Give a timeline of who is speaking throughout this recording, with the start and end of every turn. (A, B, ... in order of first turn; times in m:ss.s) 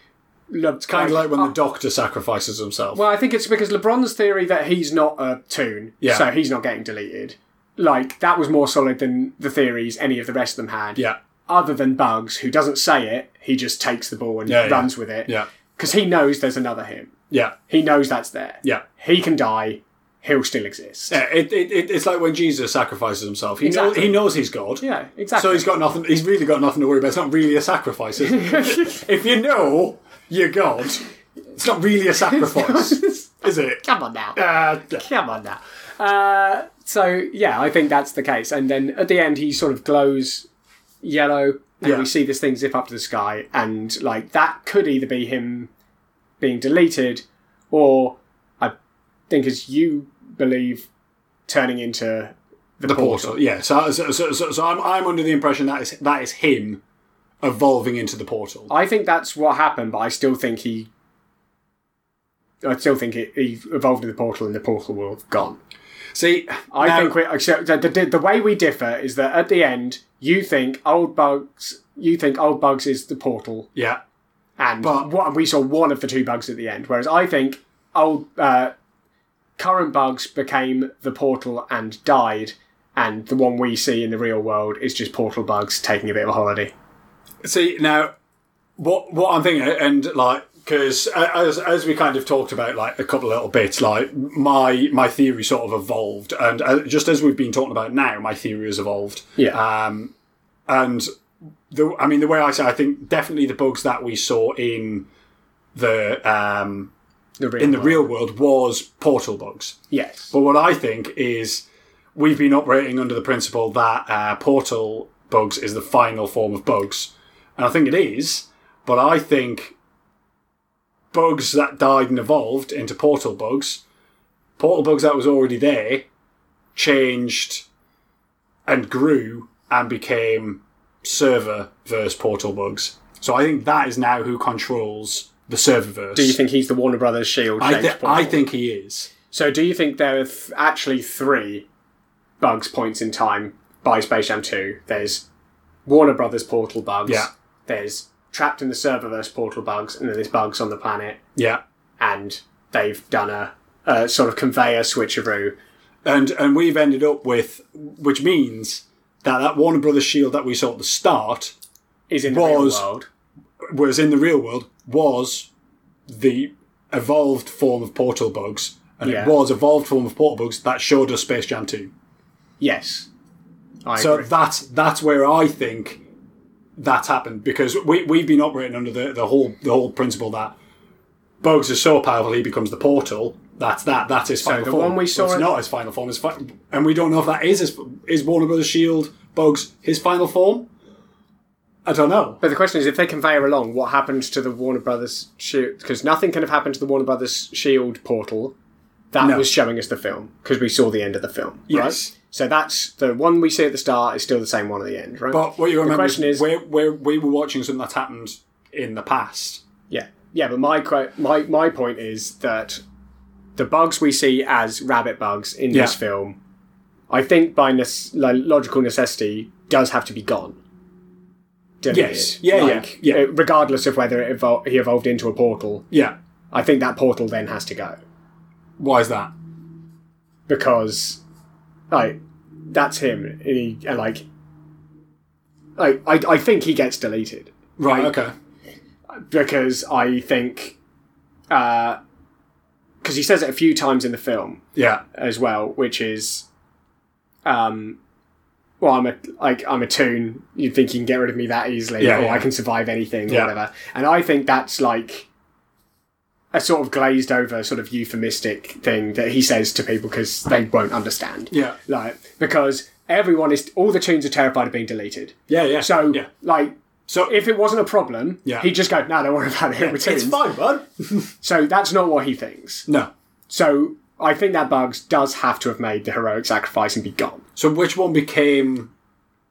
0:00.5-0:01.5 A
0:00.8-0:03.0 B
0:02.9-0:17.1 A
0:06.0-0:06.3 B
0:14.4-0:15.5 B
0:17.3-0:17.6 B
0:17.7-0:21.2 A
0:21.1-0:24.8 B
0:23.6-0:24.3 A
0:24.8-0:25.7 A
0:25.4-0:31.0 B
0:28.2-0:29.0 A
0:31.5-0:33.8 B
0:32.3-0:34.4 A
0:34.3-0:35.0 B
0:34.9-0:40.5 A
0:41.0-0:45.7 A
0:41.8-0:42.1 B
0:46.4-0:48.7 A
0:49.3-0:50.9 A
0:51.5-0:53.4 A
0:52.8-0:56.8 B
0:57.4-0:58.7 B
0:58.7-1:00.9 A
1:02.6-1:05.6 A
1:06.1-1:07.2 B
1:06.7-1:13.7 A
1:13.7-1:14.0 B
1:14.6-1:18.7 A
1:14.8-1:15.1 B
1:19.6-1:26.7 A
1:27.4-1:28.1 B
1:28.8-1:40.1 B
1:40.7-1:41.1 B
1:41.7-1:45.1 B
1:45.7-1:46.9 B
1:47.4-1:48.1 A
1:47.6-1:49.8 B
1:49.9-1:50.3 A
1:50.3-1:59.7 B
2:01.1-2:03.8 B
2:04.6-2:06.0 B
2:06.7-2:07.6 B
2:08.6-2:16.4 B
2:16.1-2:18.4 A
2:17.6-2:19.1 B
2:19.3-2:21.7 A
2:22.4-2:25.2 A
2:25.8-2:31.2 A
2:31.4-2:31.6 B
2:32.0-2:35.5 A
2:36.0-2:41.5 B
2:42.1-2:43.1 A
2:42.3-2:42.8 B
2:43.6-2:45.5 B
2:46.1-2:51.9 B
2:49.0-2:49.3 A
2:52.6-2:53.1 A
2:53.8-2:54.3 A
2:54.0-2:56.0 B
2:56.8-3:00.6 B
3:01.4-3:10.7 B
3:04.4-3:05.5 A
3:11.8-3:12.4 B
3:12.4-3:18.5 A
3:19.1-3:26.4 A
3:19.2-3:19.5 B
3:21.7-3:22.1 B
3:25.3-3:29.6 B
3:29.9-3:32.8 A
3:33.6-3:36.4 A
3:35.7-3:36.0 B
3:37.1-3:40.6 A
3:41.8-3:45.9 A
3:41.9-3:43.2 B
3:45.9-3:46.2 B
3:46.5-3:48.0 A
3:48.8-3:49.3 B
3:50.5-3:51.2 A
3:51.9-3:54.2 A
3:55.8-3:58.2 A
3:57.8-3:58.3 B
3:59.3-4:00.8 A
4:01.5-4:02.0 A
4:03.0-4:06.4 A
4:04.8-4:05.0 B
4:07.4-4:08.0 A
4:08.8-4:15.3 A
4:12.0-4:12.5 B
4:16.5-4:26.7 A
4:21.5-4:21.8 B
4:25.5-4:26.3 B
4:27.1-4:27.4 B
4:27.2-4:30.4 A
4:28.4-4:28.7 B
4:29.8-4:31.3 B
4:31.4-4:32.9 A
4:33.5-4:37.4 A
4:37.6-4:38.9 B